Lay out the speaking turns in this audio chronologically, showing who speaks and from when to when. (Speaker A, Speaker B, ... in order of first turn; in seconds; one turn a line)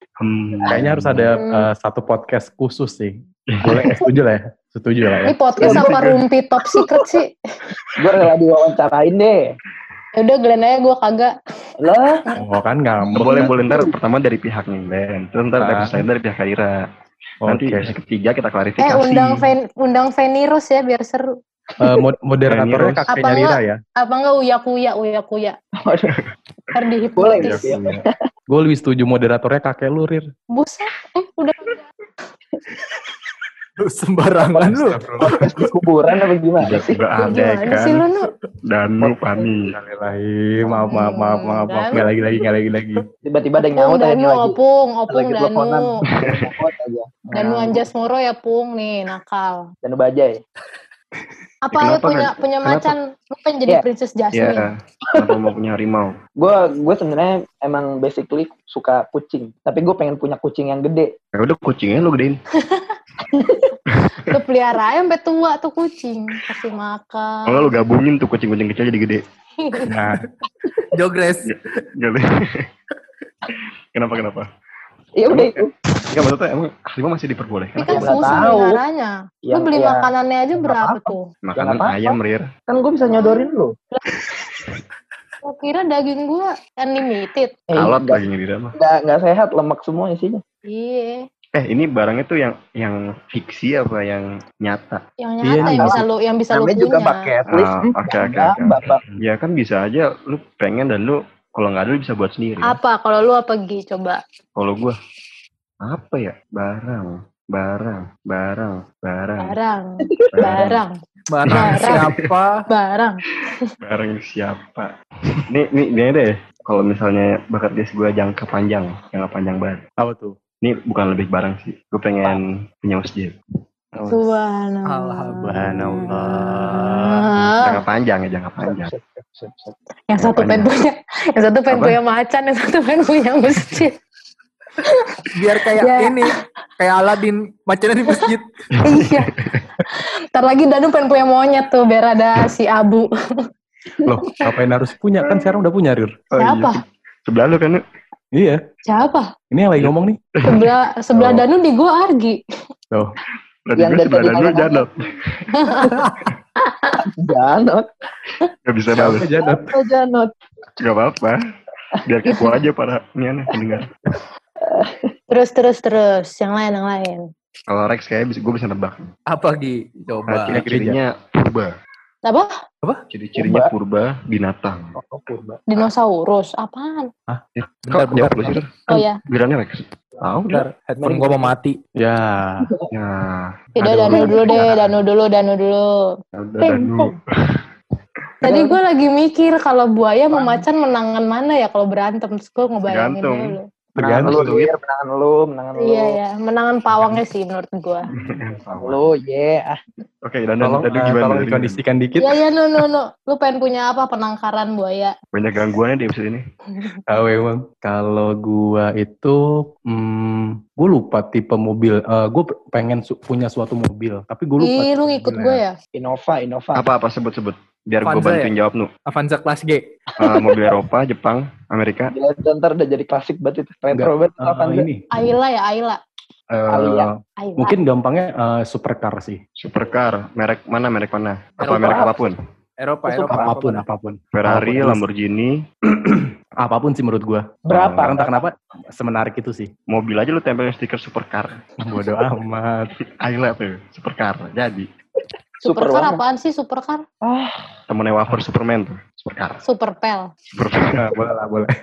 Speaker A: 0.2-1.3
Speaker B: 0.7-5.5
Speaker C: 1.4-1.7
Speaker A: 3.5-4.1
Speaker C: 5.2-7.3
Speaker A: 5.6-6.2
Speaker D: 5.6-5.9
Speaker D: 8.0-9.6
Speaker C: 10.2-11.3
Speaker D: 11.8-12.2
Speaker B: 12.3-13.5
Speaker A: 13.2-16.8
Speaker B: 15.6-16.0
Speaker B: 17.4-17.9
Speaker A: 17.5-19.5
Speaker C: 18.8-21.3
Speaker B: 21.8-23.8
Speaker A: 22.5-23.1
Speaker C: 23.1-25.6
Speaker D: 25.8-26.1
Speaker C: 26.7-27.7
Speaker D: 27.2-28.1
Speaker A: 27.4-28.0
Speaker B: 28.5-30.3
Speaker C: 30.5-31.8
Speaker E: 33.8-35.0
Speaker B: 34.4-35.7
Speaker D: 35.3-37.0
Speaker A: 36.6-38.1
Speaker C: 37.2-38.3
Speaker A: 38.7-39.8
Speaker D: 39.0-39.5
Speaker B: 39.7-43.0
Speaker C: 40.9-42.0
Speaker D: 43.2-44.6
Speaker C: 43.6-45.8
Speaker D: 45.1-47.9
Speaker C: 47.3-49.7
Speaker D: 49.8-50.4
Speaker C: 51.7-54.7
Speaker A: 51.7-52.9
Speaker A: 54.3-56.2
Speaker D: 55.1-55.5
Speaker D: 56.4-61.1
Speaker A: 61.3-62.4
Speaker C: 62.6-63.0
Speaker D: 63.3-63.7
Speaker A: 63.9-64.4
Speaker C: 64.2-67.8
Speaker A: 67.5-69.2
Speaker C: 69.6-69.9
Speaker E: 69.9-70.3
Speaker E: 70.9-71.6
Speaker A: 71.5-72.7
Speaker A: 73.5-74.5
Speaker D: 75.2-75.7
Speaker A: 75.3-78.5
Speaker C: 77.8-81.2
Speaker D: 77.9-78.8
Speaker D: 79.5-83.8
Speaker A: 81.4-82.5
Speaker C: 83.1-84.0
Speaker C: 85.4-87.6
Speaker D: 87.7-90.4
Speaker A: 87.8-88.8
Speaker C: 90.7-91.2
Speaker A: 91.5-95.0
Speaker C: 95.2-97.2
Speaker B: 95.4-96.0
Speaker D: 95.6-99.0
Speaker A: 97.5-102.8
Speaker C: 102.6-104.2
Speaker A: 104.6-105.0
Speaker A: 105.8-109.6
Speaker C: 109.4-110.9
Speaker D: 110.1-110.6
Speaker A: 110.3-110.8
Speaker E: 111.3-112.6
Speaker A: 111.5-112.2
Speaker C: 111.5-112.0
Speaker C: 112.7-113.5
Speaker A: 113.8-114.9
Speaker A: 115.5-119.8
Speaker B: 120.0-120.4
Speaker A: 120.6-123.4
Speaker B: 123.9-124.3
Speaker C: 124.1-127.8
Speaker E: 124.9-125.6
Speaker B: 125.4-127.6
Speaker A: 127.6-128.9
Speaker D: 128.6-129.8
Speaker C: 130.1-134.0
Speaker A: 130.2-130.7
Speaker A: 131.7-132.0
Speaker C: 134.8-136.3
Speaker E: 135.3-138.5
Speaker A: 138.7-139.6
Speaker C: 138.8-139.3
Speaker C: 139.9-143.1
Speaker B: 144.0-146.2
Speaker A: 146.3-147.8
Speaker C: 146.4-146.8
Speaker B: 148.3-148.6
Speaker C: 148.9-149.3
Speaker B: 149.5-150.2
Speaker A: 149.8-151.5
Speaker C: 150.4-152.4
Speaker A: 153.7-156.3
Speaker D: 153.8-154.9
Speaker C: 155.5-157.0
Speaker D: 157.0-157.9
Speaker A: 158.7-159.3
Speaker B: 158.9-159.8
Speaker D: 159.0-160.3
Speaker A: 160.8-161.4
Speaker A: 162.0-163.9
Speaker D: 164.6-165.0
Speaker C: 165.3-167.3
Speaker A: 167.7-169.1
Speaker E: 169.3-170.6
Speaker A: 170.3-171.7
Speaker B: 170.5-171.0
Speaker C: 172.3-172.5
Speaker A: 173.1-174.9
Speaker D: 173.4-173.7
Speaker D: 175.0-175.6
Speaker C: 175.7-177.1
Speaker B: 177.3-178.6
Speaker A: 177.6-180.7
Speaker C: 178.9-179.2
Speaker E: 180.5-181.8
Speaker D: 181.0-181.6
Speaker B: 182.0-182.7
Speaker A: 182.9-184.4
Speaker C: 183.8-185.9
Speaker B: 183.8-184.9
Speaker D: 184.1-184.6
Speaker A: 186.3-187.6
Speaker C: 186.6-187.1
Speaker C: 188.4-193.7
Speaker D: 188.4-188.8
Speaker A: 192.9-193.6
Speaker B: 194.0-194.4
Speaker D: 194.0-196.2
Speaker A: 194.2-194.7
Speaker C: 195.8-198.1
Speaker A: 198.2-199.1
Speaker D: 198.8-199.8
Speaker A: 200.2-201.8
Speaker B: 200.6-202.4
Speaker C: 202.2-205.1
Speaker A: 205.3-206.4
Speaker B: 207.1-215.6
Speaker C: 214.6-215.8
Speaker D: 215.9-216.9
Speaker A: 216.8-218.9
Speaker E: 218.0-218.5
Speaker E: 219.1-220.0
Speaker D: 220.2-220.8
Speaker A: 220.2-222.2
Speaker D: 222.1-224.9
Speaker B: 223.9-225.1
Speaker C: 225.1-226.0
Speaker B: 226.5-229.4
Speaker D: 226.7-227.1
Speaker C: 227.4-227.8
Speaker A: 229.6-232.4
Speaker D: 231.6-232.2
Speaker E: 231.8-232.1
Speaker E: 232.8-233.8
Speaker D: 233.1-233.6
Speaker B: 233.3-235.0
Speaker A: 234.3-235.6
Speaker B: 235.9-239.7
Speaker D: 237.7-238.5
Speaker A: 237.7-238.2
Speaker A: 239.9-241.7
Speaker B: 241.8-242.9
Speaker A: 243.1-244.9
Speaker D: 245.6-246.2
Speaker C: 245.6-247.1
Speaker D: 247.2-247.6
Speaker A: 247.9-249.6
Speaker C: 249.6-250.3
Speaker A: 250.5-251.2
Speaker B: 251.0-251.7